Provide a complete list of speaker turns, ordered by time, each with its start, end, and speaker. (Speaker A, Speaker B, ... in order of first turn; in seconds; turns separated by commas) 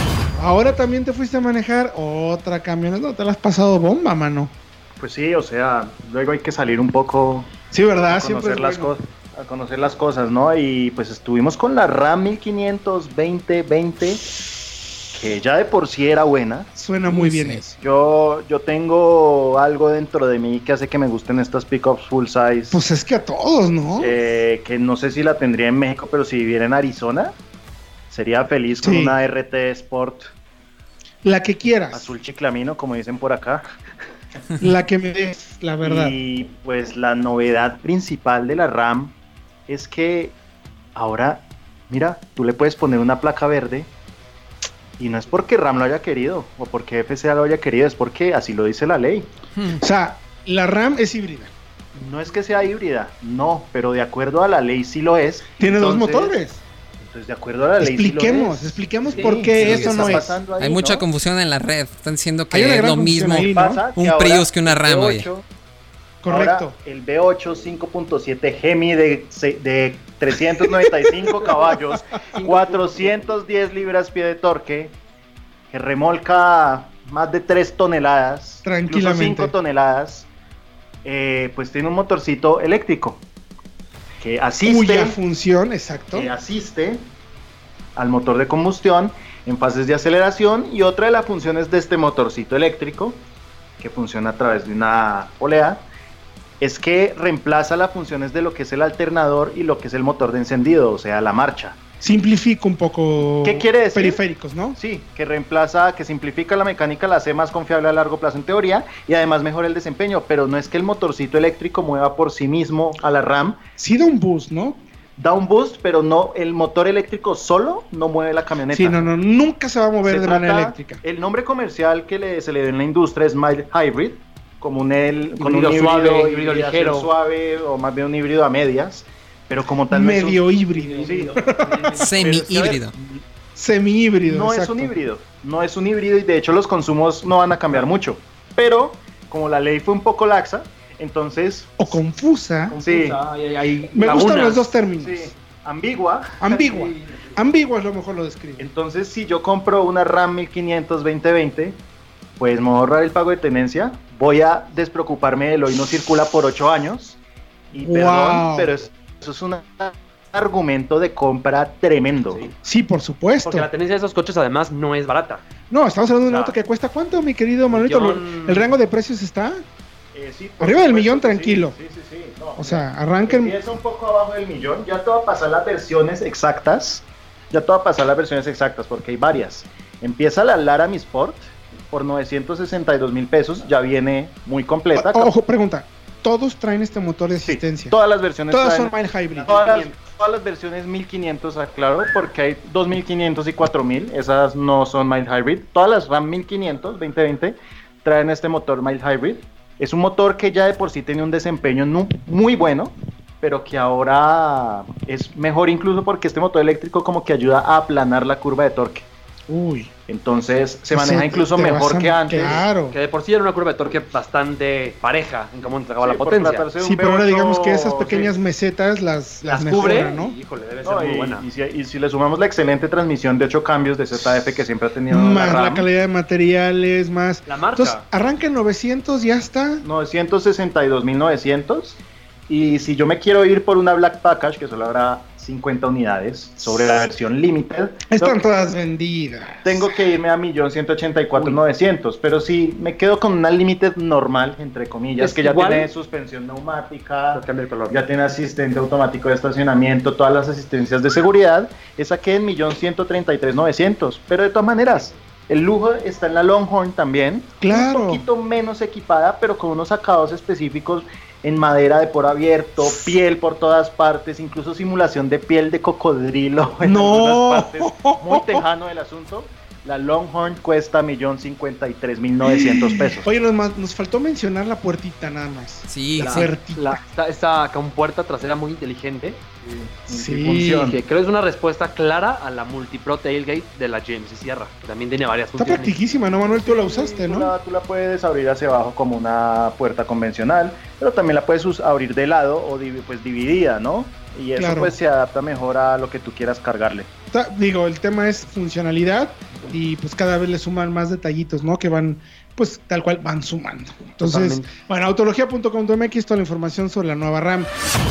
Speaker A: 0.4-4.5, Speaker B: 5.0-7.5, Speaker A: 7.7-9.0, Speaker B: 8.1-14.2, Speaker B: 15.1-16.7, Speaker A: 16.7-17.8, Speaker B: 17.8-22.8, Speaker A: 22.7-24.1, Speaker B: 24.0-27.3, Speaker B: 28.1-30.3, Speaker A: 28.8-29.2, Speaker A: 31.2-32.1, Speaker B: 31.9-33.6, Speaker A: 34.6-36.1, Speaker B: 35.8-39.1, Speaker B: 39.7-40.3, Speaker B: 40.9-43.9, Speaker B: 45.0-49.3, Speaker A: 49.7-51.5, Speaker B: 51.9-56.4, Speaker A: 55.6-56.6, Speaker B: 57.0-61.1, Speaker A: 57.8-60.4, Speaker C: 59.1-59.5, Speaker D: 59.5-65.3, Speaker A: 62.5-63.8, Speaker B: 63.4-65.4, Speaker A: 66.2-66.7, Speaker B: 66.3-75.0, Speaker C: 72.3-73.4, Speaker B: 75.7-80.3, Speaker A: 78.6-79.5, Speaker B: 81.0-83.2, Speaker B: 84.2-85.2, Speaker A: 84.6-86.3, Speaker B: 86.1-87.0, Speaker B: 88.0-93.2, Speaker B: 93.8-95.8, Speaker B: 96.6-101.8, Speaker A: 102.0-104.8, Speaker B: 103.4-104.2, Speaker B: 104.7-113.6, Speaker A: 113.8-114.8, Speaker B: 115.2-119.1, Speaker A: 118.7-121.0, Speaker B: 120.0-130.4, Speaker C: 125.4-127.1, Speaker A: 129.9-131.9, Speaker C: 130.7-132.1, Speaker B: 131.0-131.4, Speaker D: 131.9-132.9, Speaker B: 132.0-132.8, Speaker A: 133.5-134.9, Speaker B: 134.3-142.0, Speaker A: 141.8-142.8, Speaker C: 142.7-144.7, Speaker B: 142.8-143.2, Speaker A: 143.9-145.3, Speaker B: 145.0-146.5, Speaker A: 146.4-148.7, Speaker C: 146.5-147.3, Speaker B: 148.6-151.8, Speaker B: 152.4-157.2, Speaker B: 157.7-162.5, Speaker A: 157.8-158.7, Speaker C: 162.3-162.5, Speaker A: 162.6-163.7, Speaker C: 163.4-165.4, Speaker A: 165.7-169.6, Speaker C: 166.2-166.6, Speaker C: 167.7-168.7, Speaker B: 170.1-185.3, Speaker A: 170.6-171.8, Speaker A: 172.6-173.6, Speaker A: 184.9-187.9, Speaker B: 187.4-188.9, Speaker A: 188.5-189.8, Speaker C: 189.4-189.9, Speaker B: 189.4-209.1, Speaker A: 209.5-209.9, Speaker B: 210.1-212.6, Speaker A: 210.9-212.9, Speaker C: 212.4-216.7, Speaker B: 215.6-218.3, Speaker A: 216.8-220.4, Speaker C: 219.4-221.4, Speaker B: 220.8-225.9, Speaker A: 225.1-229.8, Speaker C: 227.4-228.0, Speaker B: 229.8-238.4, Speaker A: 238.1-239.9, Speaker B: 239.6-273.3, Speaker C: 241.3-241.6, Speaker C: 245.2-245.9, Speaker C: 247.3-248.0, Speaker A: 257.6-258.2, Speaker A: 266.8-268.6, Speaker A: 272.4-277.0, Speaker D: 275.9-276.5, Speaker C: 276.2-279.4, Speaker B: 279.6-281.0, Speaker A: 280.1-280.8, Speaker C: 280.7-286.0, Speaker A: 285.6-287.5, Speaker B: 286.4-297.1, Speaker A: 294.6-295.0, Speaker A: 297.3-307.7, Speaker C: 304.2-304.7